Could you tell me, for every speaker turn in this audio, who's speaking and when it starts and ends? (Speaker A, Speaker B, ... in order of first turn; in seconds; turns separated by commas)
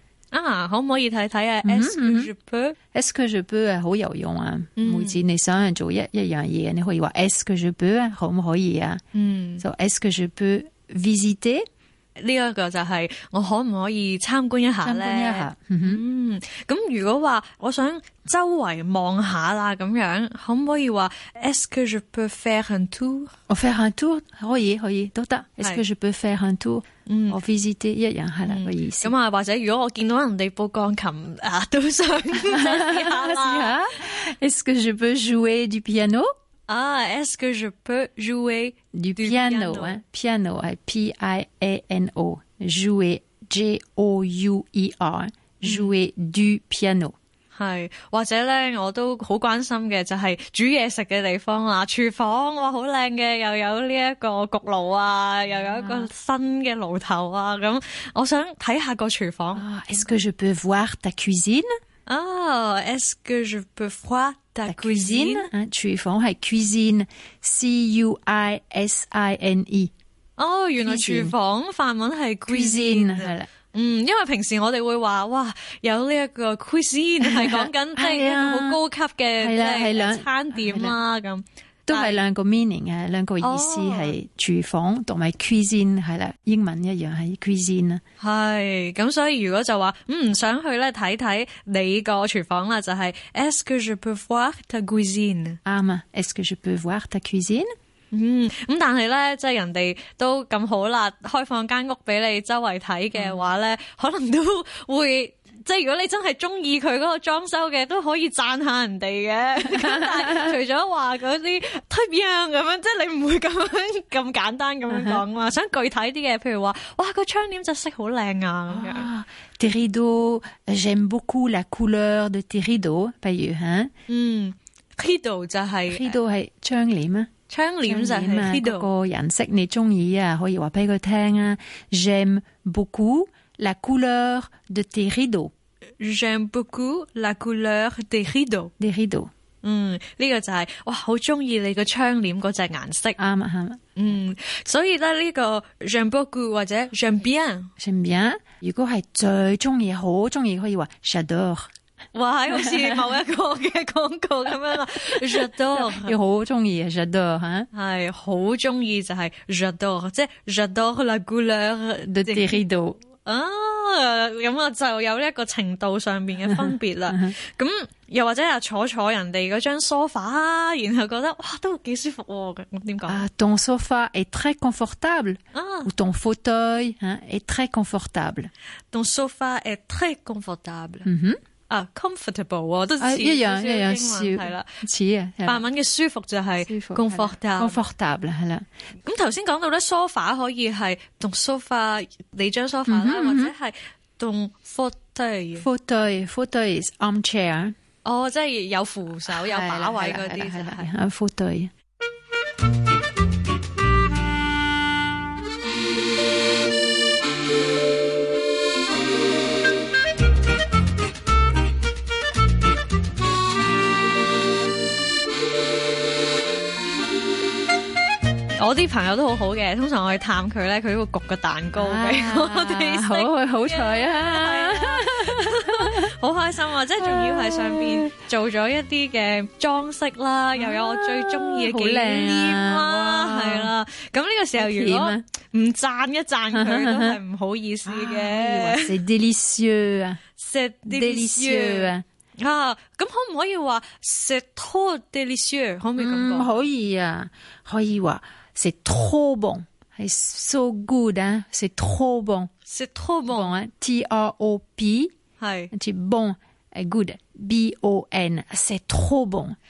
Speaker A: 0.3-2.8, Speaker B: 1.6-2.3, Speaker B: 2.9-9.0, Speaker A: 4.8-5.2, Speaker A: 9.1-9.6, Speaker B: 9.6-11.7, Speaker A: 12.2-23.3, Speaker B: 14.8-16.0, Speaker B: 23.5-29.1, Speaker A: 27.1-27.4, Speaker A: 28.5-33.8, Speaker B: 32.5-36.3, Speaker A: 36.7-40.0, Speaker B: 38.9-47.1, Speaker A: 45.6-45.9, Speaker A: 47.5-59.7, Speaker B: 55.6-56.1, Speaker B: 59.5-61.7, Speaker A: 62.1-65.5, Speaker B: 64.7-69.9, Speaker A: 70.4-82.2, Speaker B: 70.8-71.3, Speaker B: 72.5-73.5, Speaker B: 77.2-78.8, Speaker B: 79.4-81.0, Speaker B: 81.9-88.0, Speaker A: 83.4-84.2, Speaker A: 88.2-95.6, Speaker B: 95.7-97.7, Speaker A: 98.1-119.1, Speaker B: 103.2-103.4, Speaker B: 109.7-110.5, Speaker B: 114.9-115.2, Speaker B: 118.7-123.9, Speaker A: 124.1-126.2, Speaker B: 125.9-127.3, Speaker A: 127.5-128.9, Speaker B: 127.9-135.5, Speaker A: 136.0-138.7, Speaker B: 138.8-139.3, Speaker A: 139.6-143.2, Speaker B: 143.2-143.8, Speaker A: 144.0-147.7, Speaker B: 147.8-151.7, Speaker A: 152.1-156.1, Speaker B: 155.8-157.7, Speaker A: 157.7-162.6, Speaker B: 162.1-163.0, Speaker A: 163.2-173.2, Speaker B: 166.5-167.3, Speaker B: 173.1-178.5, Speaker A: 175.5-175.9, Speaker A: 178.9-181.1, Speaker B: 181.1-181.4, Speaker A: 181.7-184.8, Speaker B: 183.0-185.7, Speaker A: 185.4-187.8, Speaker B: 186.6-188.7, Speaker A: 189.0-195.7, Speaker B: 192.9-193.5, Speaker B: 195.6-197.8, Speaker A: 198.1-200.9, Speaker B: 199.3-201.7, Speaker A: 218.6-239.0, Speaker B: 221.8-226.1, Speaker B: 227.0-228.1, Speaker B: 230.6-233.7, Speaker B: 234.6-235.2, Speaker B: 236.5-237.2, Speaker B: 237.9-240.2, Speaker A: 240.4-246.5, Speaker B: 240.9-242.0, Speaker B: 246.0-252.5, Speaker A: 252.7-253.5, Speaker B: 253.3-255.1, Speaker A: 255.4-255.7, Speaker B: 255.7-259.6